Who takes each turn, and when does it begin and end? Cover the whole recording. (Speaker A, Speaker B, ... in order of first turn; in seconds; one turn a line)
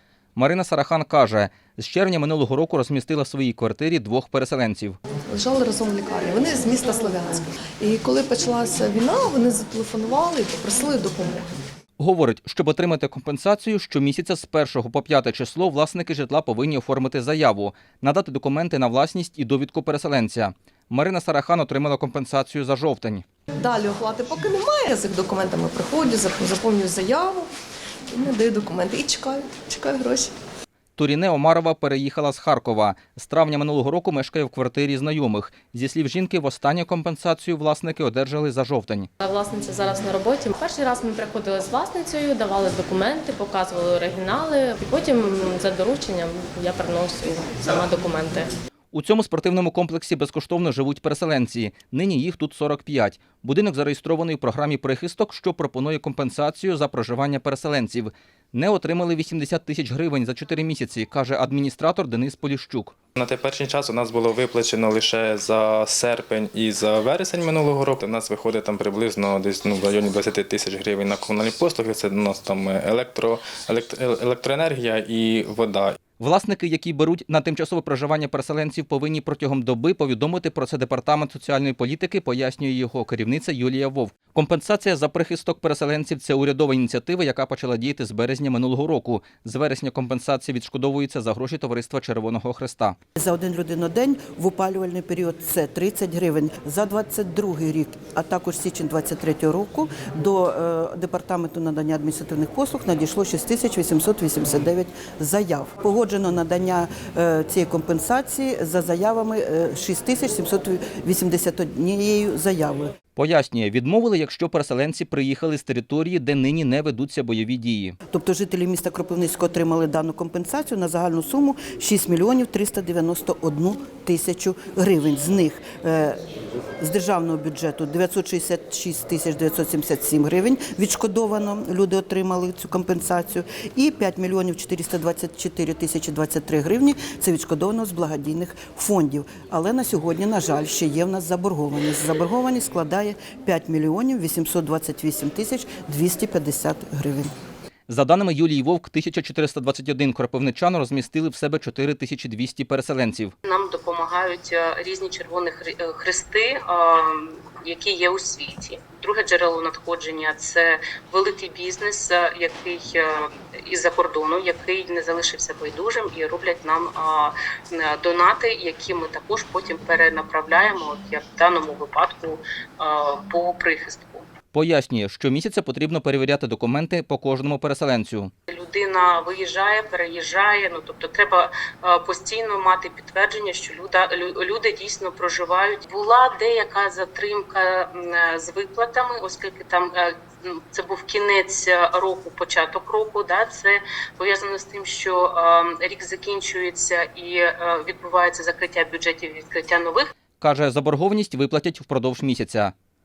Speaker A: 0.3-5.0
Speaker B: 5.3-11.4
Speaker A: 12.0-23.2
Speaker B: 23.6-27.4
Speaker B: 28.1-30.3
Speaker A: 31.0-39.1
Speaker C: 39.2-48.5
Speaker A: 48.9-62.9
Speaker D: 63.2-76.0
Speaker A: 76.2-93.0
Speaker E: 93.2-112.9
Speaker A: 113.2-118.0
Speaker E: 118.1-126.2
Speaker E: 126.8-147.3
Speaker A: 147.9-153.3
Speaker F: 153.4-174.2
Speaker A: 174.5-178.3
Speaker F: 178.5-200.1
Speaker A: 200.4-202.7